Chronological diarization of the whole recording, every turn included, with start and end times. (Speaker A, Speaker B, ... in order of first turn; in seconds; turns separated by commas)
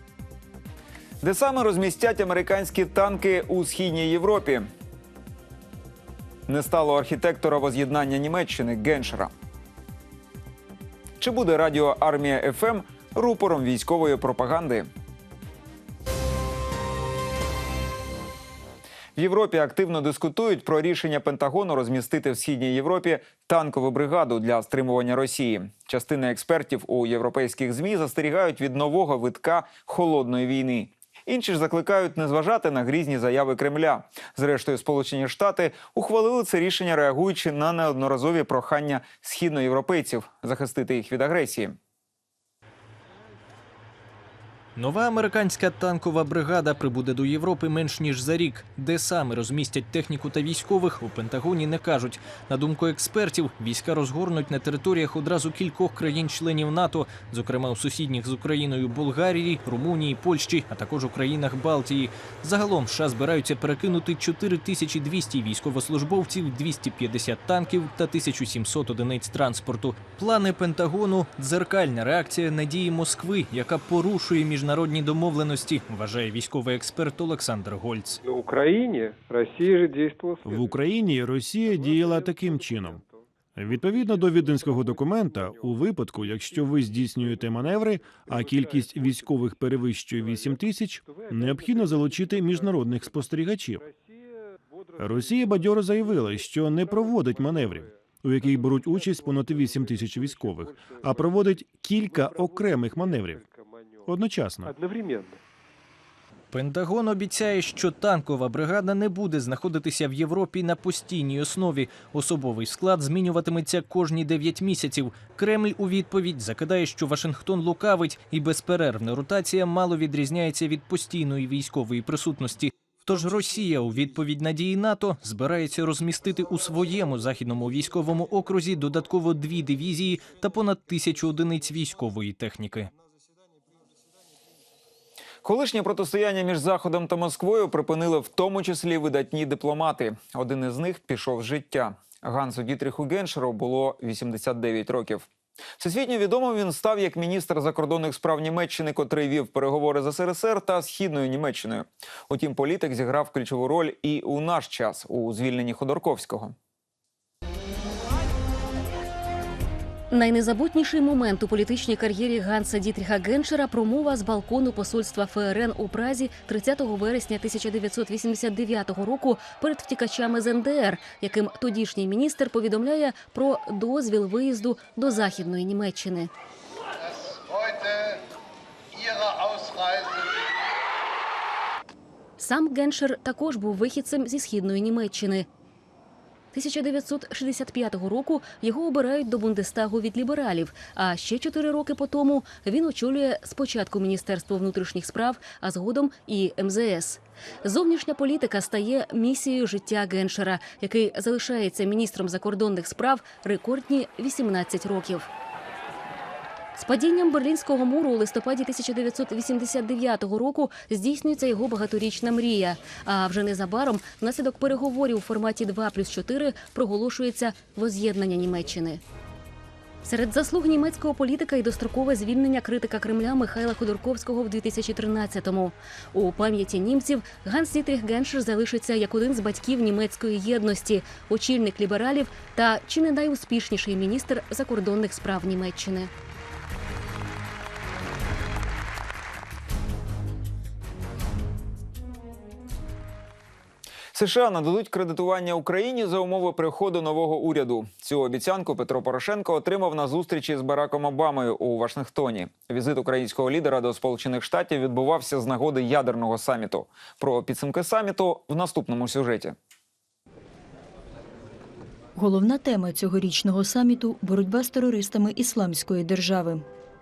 Speaker A: 1.2-4.7, Speaker A: 6.5-9.3, Speaker A: 11.2-14.9, Speaker A: 19.2-41.8, Speaker B: 44.8-78.2, Speaker C: 78.2-80.7, Speaker D: 80.4-83.0, Speaker C: 81.7-83.2, Speaker D: 83.6-93.8, Speaker C: 83.7-89.5, Speaker C: 90.1-94.0, Speaker C: 94.9-97.9, Speaker D: 95.0-103.5, Speaker C: 98.4-104.1, Speaker D: 104.0-104.8, Speaker C: 104.7-105.4, Speaker B: 106.5-132.9, Speaker A: 135.4-156.6, Speaker E: 160.1-176.3, Speaker E: 182.4-185.5, Speaker E: 186.5-205.3, Speaker E: 206.8-219.0, Speaker E: 220.1-236.1, Speaker A: 244.1-259.6, Speaker F: 262.2-266.6